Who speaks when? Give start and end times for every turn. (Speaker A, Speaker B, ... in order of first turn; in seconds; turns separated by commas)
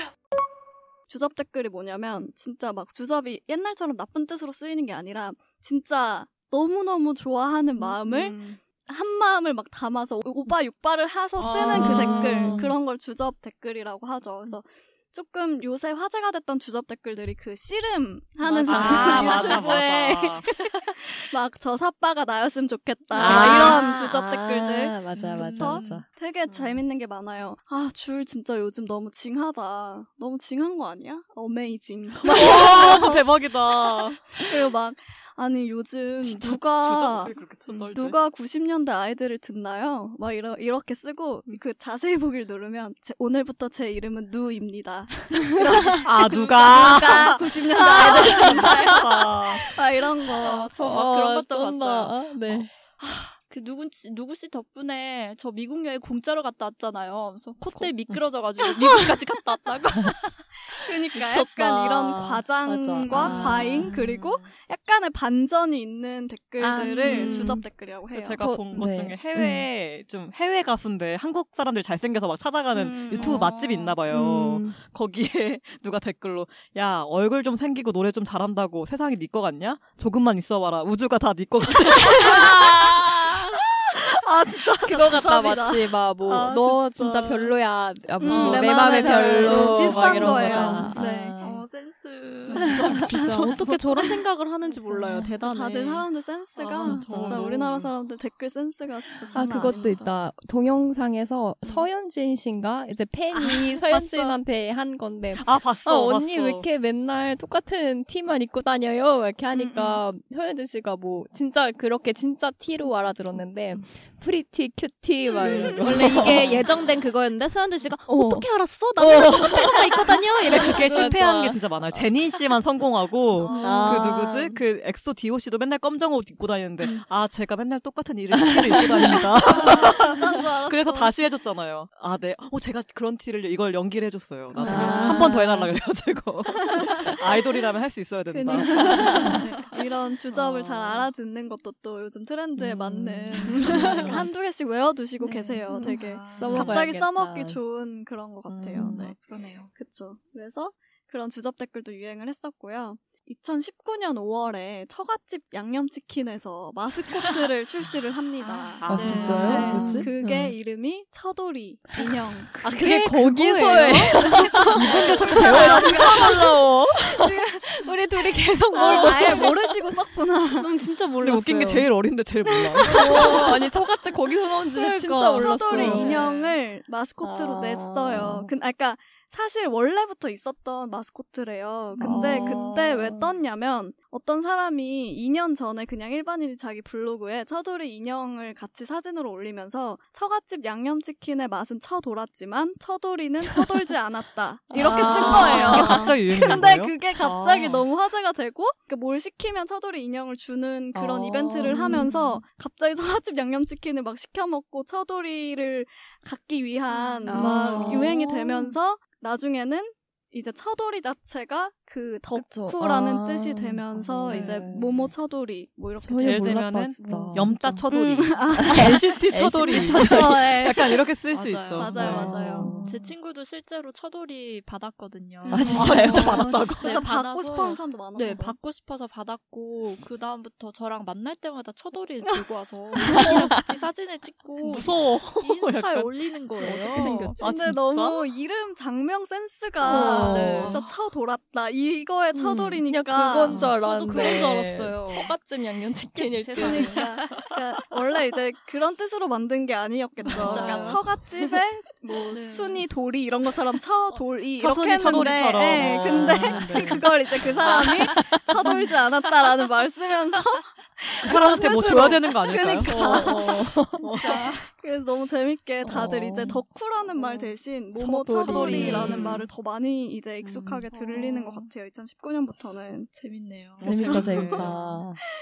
Speaker A: 1.1-50.7, Speaker B: 8.2-8.6, Speaker C: 11.4-12.6, Speaker D: 11.7-12.7, Speaker E: 18.5-19.6, Speaker C: 18.7-20.5, Speaker D: 18.8-19.2, Speaker C: 23.1-23.8, Speaker D: 23.1-26.1, Speaker E: 25.1-26.1, Speaker C: 26.5-26.8, Speaker C: 32.2-34.4, Speaker C: 36.2-38.2, Speaker C: 46.0-49.6, Speaker E: 50.4-60.6, Speaker D: 50.5-52.7, Speaker C: 57.7-58.2, Speaker A: 60.8-68.4, Speaker E: 61.1-62.4, Speaker D: 62.6-63.9, Speaker E: 63.1-64.5, Speaker D: 66.6-67.6, Speaker B: 67.1-67.6, Speaker C: 68.1-83.6, Speaker D: 68.4-69.3, Speaker B: 69.4-69.6, Speaker A: 72.7-73.5, Speaker B: 74.1-74.8, Speaker C: 84.1-85.0, Speaker D: 84.8-91.6, Speaker A: 84.8-85.9, Speaker C: 86.2-87.6, Speaker A: 88.2-91.4, Speaker C: 88.3-89.2, Speaker E: 89.8-92.8, Speaker B: 90.2-90.9, Speaker A: 92.5-92.8, Speaker D: 92.5-93.1, Speaker C: 92.6-93.7, Speaker B: 92.9-96.1, Speaker A: 95.4-100.0, Speaker D: 96.7-97.4, Speaker C: 96.8-97.9, Speaker D: 99.3-116.6, Speaker C: 103.9-104.4, Speaker C: 105.4-106.7, Speaker A: 109.5-110.0, Speaker A: 115.6-116.4, Speaker B: 115.8-121.0, Speaker D: 118.1-118.5, Speaker C: 119.0-139.2, Speaker D: 120.5-121.6, Speaker A: 123.4-124.0, Speaker D: 123.6-124.5, Speaker B: 123.6-124.5, Speaker A: 129.5-131.2, Speaker D: 134.6-135.7, Speaker B: 134.7-135.5, Speaker A: 134.7-135.0, Speaker A: 138.3-149.2, Speaker D: 138.8-139.3, Speaker D: 143.4-144.2, Speaker E: 143.7-144.3, Speaker E: 145.2-146.8, Speaker D: 146.3-147.6, Speaker C: 146.5-146.8, Speaker C: 148.5-149.1, Speaker E: 148.8-149.7, Speaker A: 149.8-170.7, Speaker E: 158.6-159.8, Speaker D: 158.8-160.5, Speaker C: 158.8-160.0, Speaker D: 161.9-167.3, Speaker C: 164.7-166.4, Speaker D: 168.8-169.5, Speaker B: 168.8-169.4, Speaker B: 170.6-171.9, Speaker C: 171.2-173.2, Speaker A: 172.5-173.7, Speaker D: 172.9-176.3, Speaker A: 174.7-216.8, Speaker C: 175.8-176.1, Speaker D: 177.2-178.5, Speaker D: 182.0-183.3, Speaker D: 194.7-196.1, Speaker C: 194.8-197.8, Speaker D: 200.9-202.2, Speaker B: 207.3-208.1, Speaker D: 207.3-208.7, Speaker D: 212.3-214.9, Speaker D: 216.0-217.9, Speaker C: 216.2-222.8, Speaker A: 217.9-219.2, Speaker D: 218.5-220.3, Speaker A: 219.8-220.8, Speaker B: 220.1-220.8, Speaker E: 221.3-237.3, Speaker A: 221.8-222.7, Speaker D: 221.9-223.1, Speaker D: 225.5-226.7, Speaker A: 225.5-228.6, Speaker C: 225.6-227.0, Speaker C: 233.2-233.5, Speaker C: 234.6-236.1, Speaker D: 236.6-237.4, Speaker A: 236.6-244.8, Speaker C: 237.4-238.3, Speaker D: 239.8-240.8, Speaker E: 239.8-240.8, Speaker D: 242.4-247.1, Speaker B: 243.7-245.3, Speaker E: 246.2-247.2, Speaker A: 246.6-273.1, Speaker E: 250.3-251.0, Speaker C: 250.4-250.8, Speaker D: 250.4-251.2, Speaker E: 252.3-252.9, Speaker C: 254.6-257.1, Speaker D: 255.8-257.0, Speaker E: 256.2-257.0, Speaker D: 257.7-258.8, Speaker C: 261.2-264.5, Speaker D: 262.8-264.1, Speaker E: 264.1-264.6, Speaker D: 265.8-266.6, Speaker D: 268.0-269.4, Speaker E: 268.5-269.1, Speaker C: 268.6-269.2, Speaker E: 270.9-271.6, Speaker E: 273.1-274.8, Speaker C: 273.8-274.7, Speaker D: 273.8-275.2, Speaker A: 273.8-274.7